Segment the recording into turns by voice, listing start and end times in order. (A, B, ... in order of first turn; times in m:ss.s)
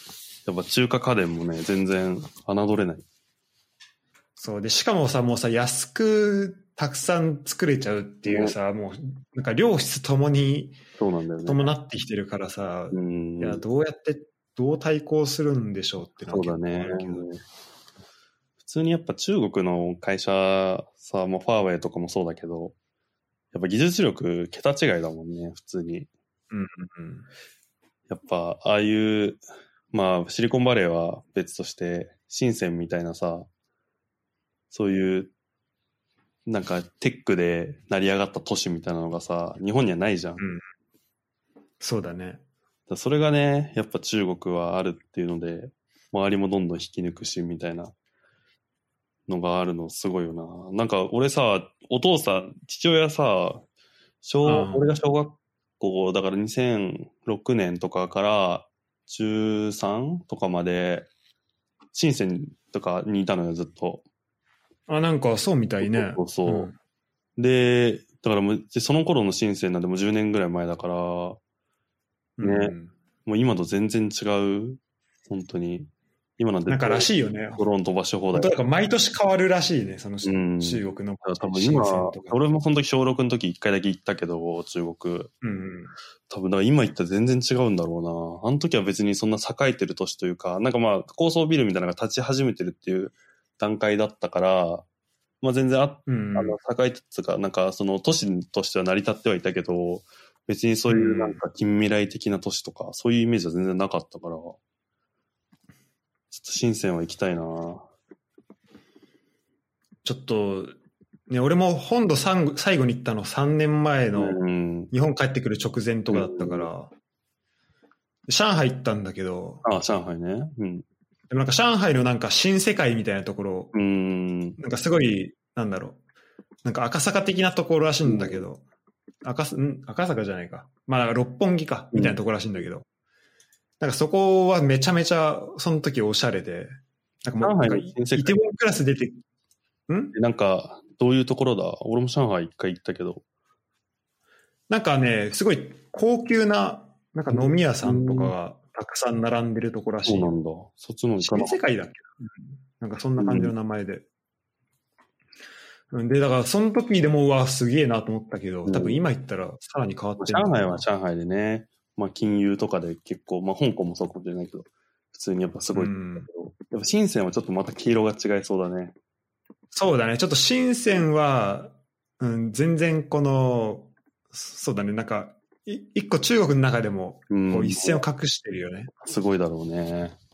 0:00.4-0:03.0 A
0:04.4-0:10.8 B
0:08.3-0:08.5 A
0:11.0-0:11.7 A
0:11.4-0:17.3 B
0:12.9-0:13.6 A
0:16.3-0:17.4 A
0:18.6-0:22.7 A
0:23.5-0:26.1 A
0:26.5-0:27.3 B
0:28.1-0:33.5 A
0:34.7-0:35.3 A
0:36.4-0:40.4 A
0:40.4-0:40.6 B
0:41.8-0:42.4 B
0:42.9-0:47.9 A
0:49.3-0:53.6 A
0:54.2-1:01.1 A
0:54.4-0:54.9 B
1:01.9-1:04.0 A
1:04.9-1:06.7 B
1:05.8-1:06.7 A
1:07.4-1:11.4 A
1:12.4-1:12.9 B
1:12.4-1:12.7 A
1:13.2-1:18.6 A
1:16.7-1:17.6 B
1:18.3-1:22.4 B
1:20.2-1:25.3 A
1:25.4-1:25.9 B
1:26.3-1:34.8 A
1:35.4-1:44.6 A
1:36.1-1:36.6 B
1:40.9-1:41.4 B
1:46.3-1:47.8 A
1:50.0-1:50.7 B
1:51.3-1:56.9 B
1:54.2-1:54.9 A
1:56.1-1:56.7 A
1:58.3-1:59.6 B
1:59.6-2:00.8 A
2:01.3-2:03.7 B
2:03.7-2:04.6 A
2:04.6-2:06.0 B
2:06.6-2:08.6 B
2:08.0-2:08.4 A
2:09.2-2:12.8 B
2:11.9-2:12.2 A
2:13.8-2:19.2 B
2:17.4-2:18.4 A
2:19.9-2:20.1 B
2:20.1-2:23.2 A
2:24.7-2:30.3 B
2:27.3-2:28.3 A
2:30.0-2:31.6 A
2:31.2-2:34.0 B
2:33.2-2:33.5 A
2:35.9-2:40.8 B
2:38.6-2:39.0 A
2:40.2-2:48.9 A
2:45.7-2:46.3 B
2:49.7-2:58.9 B
2:57.3-2:58.0 A
2:59.0-3:00.2 A